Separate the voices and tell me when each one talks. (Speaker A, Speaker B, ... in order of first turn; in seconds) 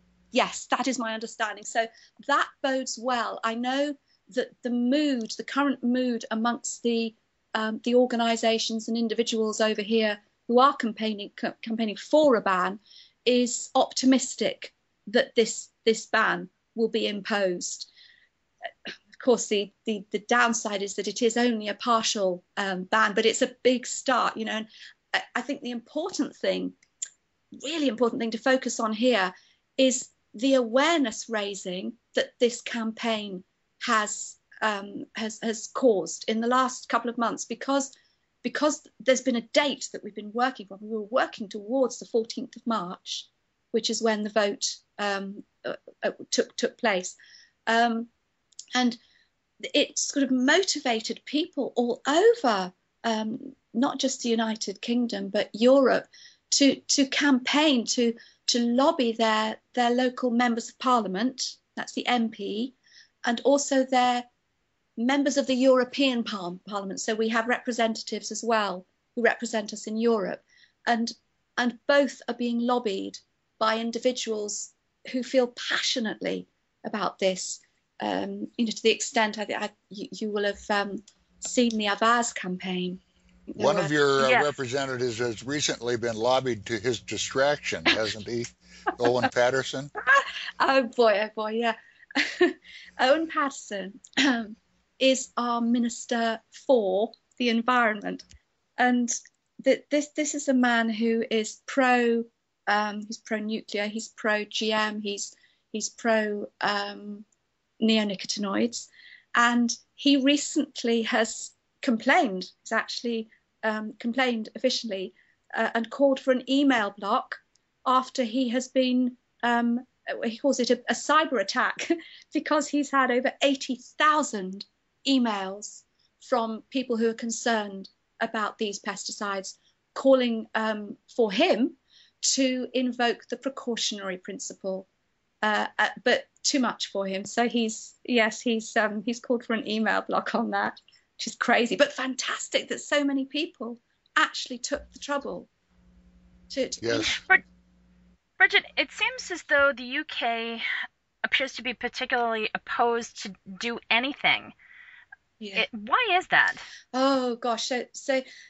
Speaker A: 0.3-17.9, 19.2-26.7, 27.6-37.9, 38.4-47.1, 47.7-48.1, 49.6-64.3, 65.0-83.9, 90.0-98.2, 98.8-107.2, 107.8-134.9, 135.4-145.5, 146.5-147.3, 155.4-155.6, 156.9-158.2
Speaker B: 83.6-89.9, 146.8-147.2
Speaker C: 84.2-84.5, 147.1-147.4, 148.4-150.6, 151.2-154.5, 155.5-156.6